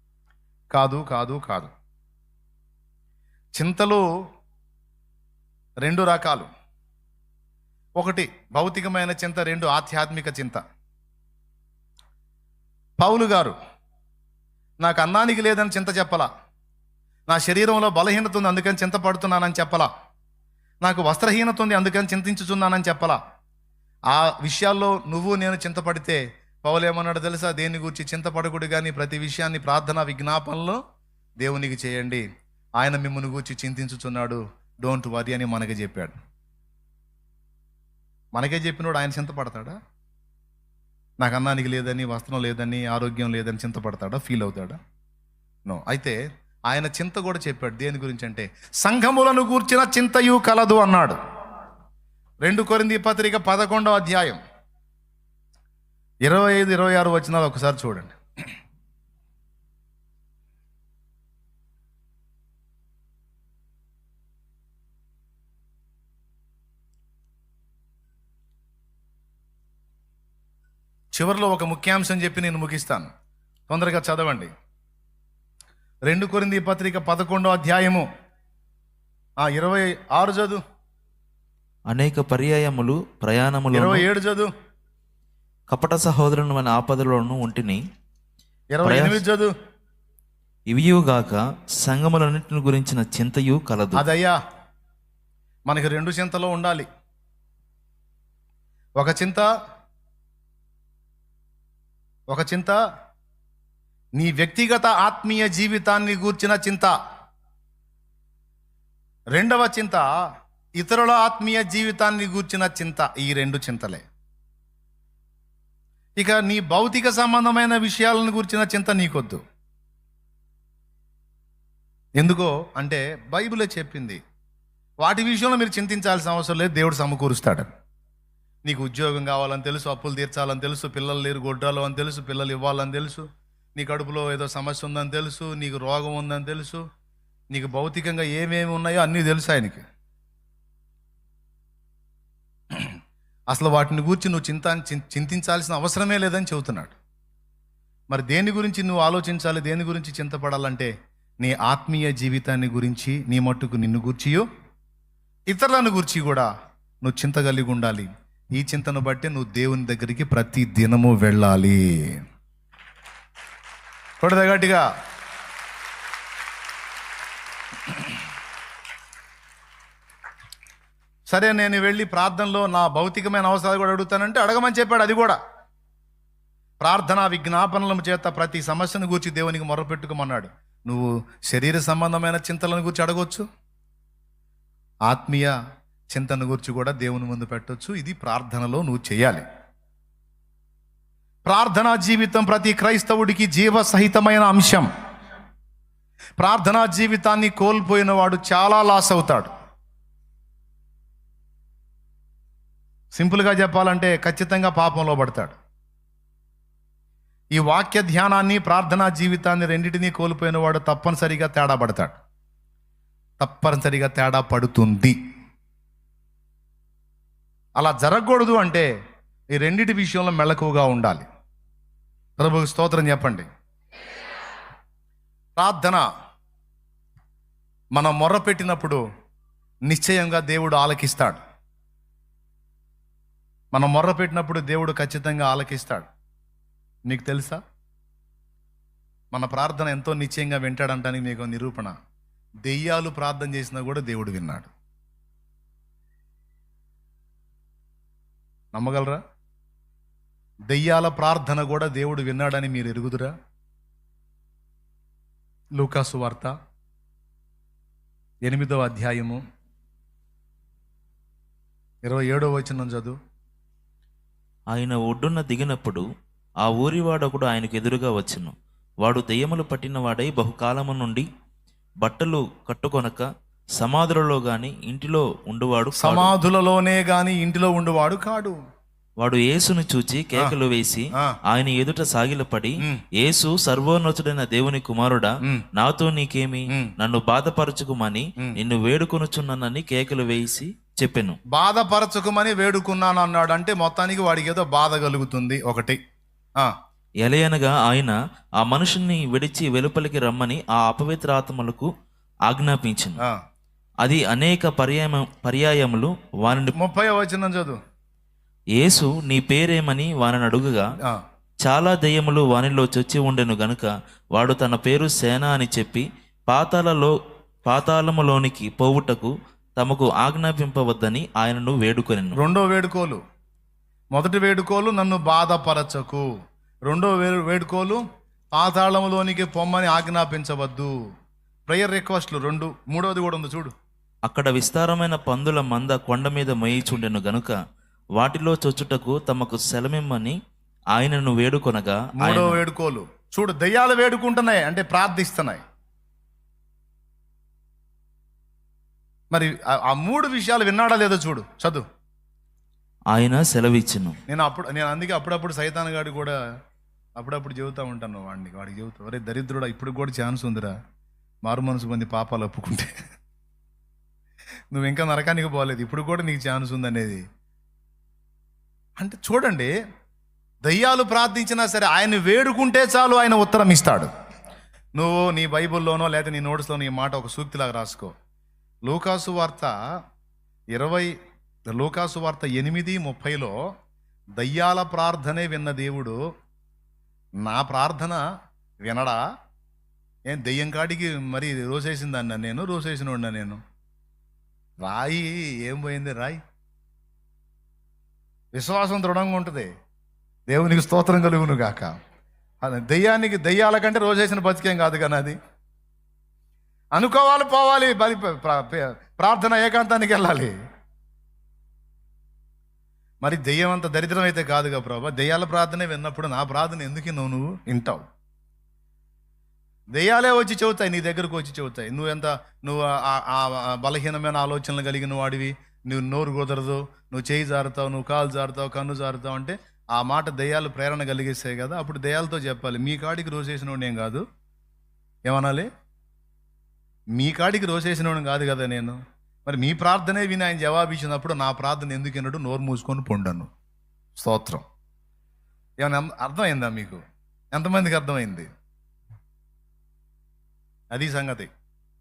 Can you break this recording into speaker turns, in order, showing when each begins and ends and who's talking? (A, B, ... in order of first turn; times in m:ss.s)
0:00.7-0:01.7 A
0:03.6-0:04.0 A
0:05.8-0:06.5 A
0:08.0-0:10.6 A
0:13.0-0:13.6 A
0:14.8-0:16.3 A
0:17.3-0:19.9 A
0:20.8-0:23.2 A
0:24.1-0:30.8 A
0:31.4-0:32.2 A
0:32.8-0:36.2 A
0:38.3-0:39.7 A
0:41.2-0:44.8 A
0:45.6-0:46.2 A
0:46.7-0:51.2 A
0:52.4-0:54.4 A
0:56.2-0:58.2 A
1:11.1-1:13.1 A
1:13.7-1:14.5 A
1:16.1-1:18.0 A
1:19.4-1:20.6 A
1:21.9-1:24.0 B
1:23.7-1:24.5 A
1:25.7-1:27.8 B
1:28.7-1:29.5 A
1:28.8-1:29.2 B
1:30.7-1:34.0 B
1:33.9-1:34.4 A
1:35.7-1:36.9 A
1:39.0-1:39.5 A
1:42.3-1:42.8 A
1:44.2-1:46.9 A
1:49.4-1:50.0 A
1:50.8-1:54.0 A
1:56.2-1:59.4 A
2:02.2-2:04.2 A
2:05.0-2:07.7 A
2:08.6-2:16.8 A
2:17.5-2:19.8 A
2:23.5-2:27.0 A
2:28.1-2:30.9 A
2:31.4-2:34.4 A
2:35.5-2:36.5 A
2:37.0-2:42.2 A
2:44.2-2:44.8 A
2:51.3-2:55.4 A
2:56.8-3:03.4 A
3:05.1-3:05.5 A
3:06.1-3:09.4 A
3:11.4-3:14.9 A
3:16.4-3:19.5 A
3:23.1-3:25.6 A
3:27.5-3:32.2 A
3:33.4-3:35.2 A
3:37.8-3:38.9 A
3:39.5-3:41.2 A
3:42.4-3:43.5 A
3:45.6-3:46.0 A
3:47.9-3:49.0 A
3:49.9-3:51.4 A
3:53.7-3:56.1 A
3:57.1-3:57.6 A
3:59.3-4:01.9 A
4:02.6-4:04.7 A
4:08.7-4:09.2 A
4:10.7-4:13.3 A
4:15.8-4:16.5 A
4:18.5-4:19.4 A
4:22.0-4:23.2 A
4:24.7-4:26.0 B
4:26.6-4:31.2 B
4:32.0-4:33.2 B
4:33.8-4:36.3 B
4:36.0-4:38.6 A
4:39.2-4:51.4 B
4:51.5-4:56.0 A
4:57.2-5:01.9 B
5:02.5-5:03.2 B
5:04.0-5:06.7 B
5:06.8-5:07.8 A
5:08.8-5:10.8 B
5:11.6-5:17.1 B
5:17.6-5:22.4 B
5:22.4-5:23.2 A
5:24.1-5:26.3 A
5:26.9-5:28.0 A
5:28.5-5:30.9 A
5:31.7-5:33.7 A
5:34.3-5:37.6 B
5:38.2-5:40.4 B
5:40.9-5:42.6 B
5:42.2-5:45.6 A
5:49.3-5:51.8 A
5:53.1-5:54.2 B
5:54.3-5:56.3 A
5:57.2-6:00.7 A
6:01.4-6:02.9 A
6:04.7-6:07.2 A
6:09.0-6:09.7 A
6:10.6-6:14.1 A
6:15.0-6:18.1 A
6:18.8-6:19.7 A
6:20.7-6:21.1 A
6:21.7-6:23.6 A
6:24.4-6:26.2 A
6:27.4-6:28.2 A
6:28.8-6:29.2 A
6:30.3-6:33.6 A
6:34.8-6:36.4 A
6:38.5-6:39.7 A
6:40.5-6:41.9 A
6:42.6-6:45.4 A
6:47.0-6:50.5 A
6:53.2-6:58.0 A
7:00.0-7:14.2 A
7:15.3-7:15.7 A
7:17.2-7:23.5 A
7:24.2-7:24.6 A
7:25.8-7:27.0 A
7:27.5-7:28.5 A
7:30.9-7:31.5 A